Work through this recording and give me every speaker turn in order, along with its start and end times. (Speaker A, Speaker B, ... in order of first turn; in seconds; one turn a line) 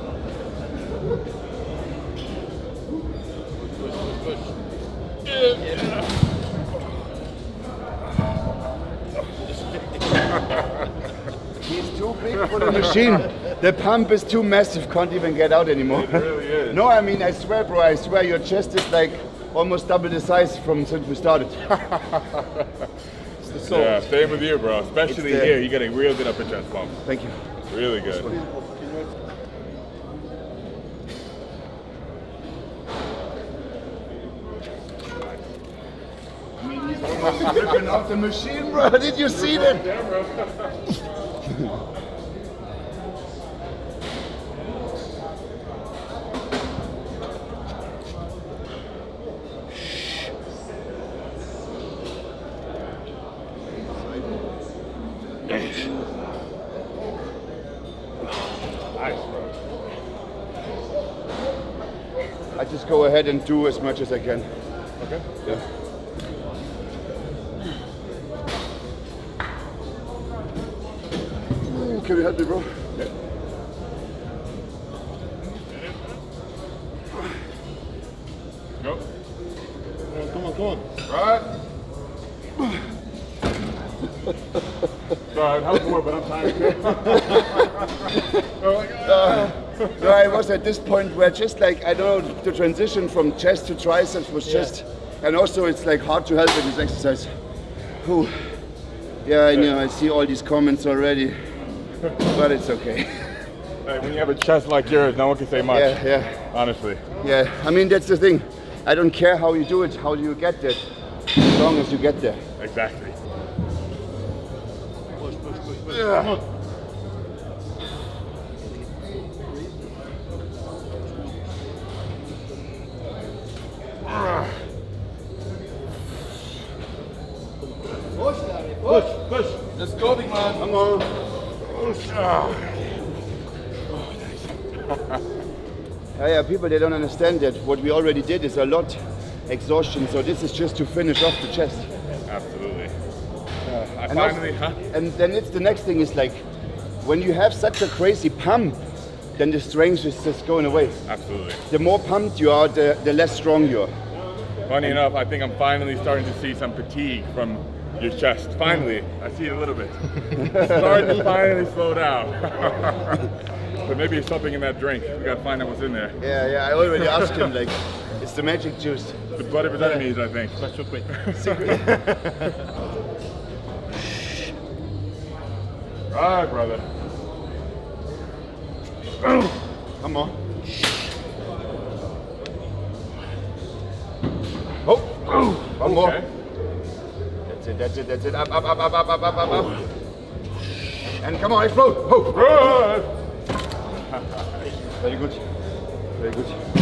Speaker A: 3.8-4.5
Speaker B: 11.6-21.6
Speaker C: 15.9-16.8
Speaker C: 21.9-22.6
Speaker C: 23.7-27.0
Speaker B: 25.1-25.6
Speaker B: 27.0-27.4
Speaker C: 27.7-28.3
Speaker A: 28.2-29.1
Speaker B: 36.6-39.9
Speaker C: 39.3-40.7
Speaker C: 58.9-59.5
Speaker B: 62.5-64.5
Speaker C: 65.0-65.2
Speaker B: 71.6-72.7
Speaker A: 80.1-80.8
Speaker C: 81.1-81.5
Speaker C: 85.3-90.2
Speaker B: 88.1-88.5
Speaker B: 89.0-97.3
Speaker B: 98.0-98.3
Speaker B: 99.2-101.3
Speaker B: 102.2-103.3
Speaker C: 103.8-107.0
Speaker B: 105.7-106.4
Speaker B: 107.2-110.8
Speaker B: 111.4-112.4
Speaker C: 112.6-113.2
Speaker A: 115.2-116.4
Speaker A: 118.7-119.2
Speaker A: 121.1-121.4
Speaker A: 128.6-129.5
Speaker C: 129.8-130.5
Speaker B: 130.4-131.1
Speaker C: 131.8-132.9
Speaker C: 133.9-135.2
Speaker B: 136.2-141.9
Speaker C: 142.3-142.9
Speaker C: 143.6-144.8
Speaker B: 144.1-146.4
Speaker B: 147.0-148.8
Speaker B: 149.3-151.0
Speaker C: 151.1-151.6
Speaker B: 151.7-153.9
Speaker C: 154.7-163.3
Speaker C: 163.8-166.2
Speaker B: 166.2-169.2
Speaker C: 167.0-167.4
Speaker C: 169.3-170.6
Speaker A: 169.8-170.0
Speaker A: 170.6-171.1
Speaker C: 171.1-171.5
Speaker B: 171.3-171.9
Speaker A: 171.7-172.6
Speaker C: 176.1-176.8
Speaker B: 180.0-180.3
Speaker B: 184.8-186.2
Speaker C: 185.8-186.3
Speaker B: 187.5-189.8
Speaker B: 191.2-192.8
Speaker C: 192.3-193.1
Speaker C: 194.1-194.6
Speaker B: 194.9-195.4
Speaker B: 196.2-196.6